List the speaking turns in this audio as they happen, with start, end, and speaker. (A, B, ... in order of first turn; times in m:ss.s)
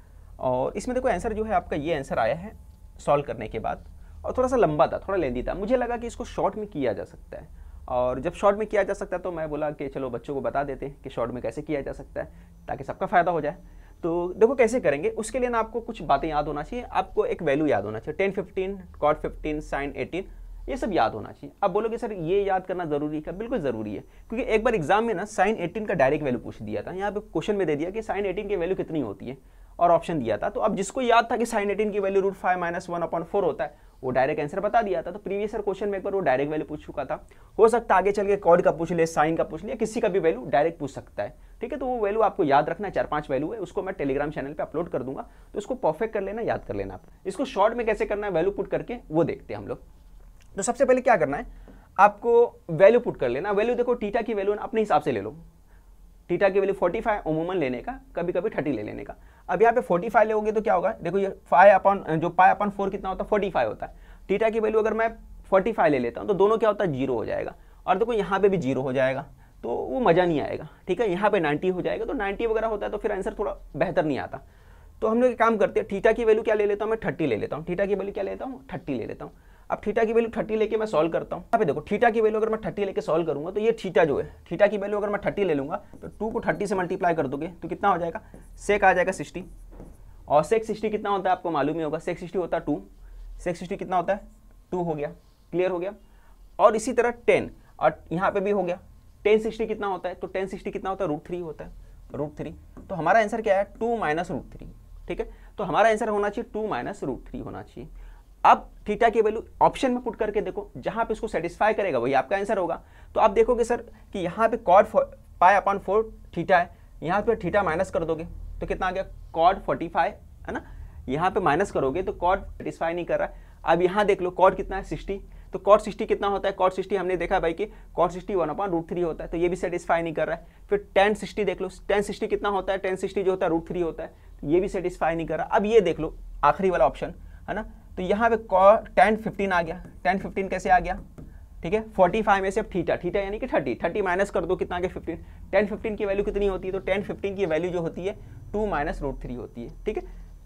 0:00.4-0:49.8 A
0:50.5-0:51.4 A
0:52.0-0:55.4 A
0:56.3-1:14.4 A
1:15.0-1:29.4 A
1:30.3-1:32.9 A
1:33.4-1:35.9 A
1:36.6-1:47.9 A
1:48.4-2:21.0 A
2:21.6-2:30.0 A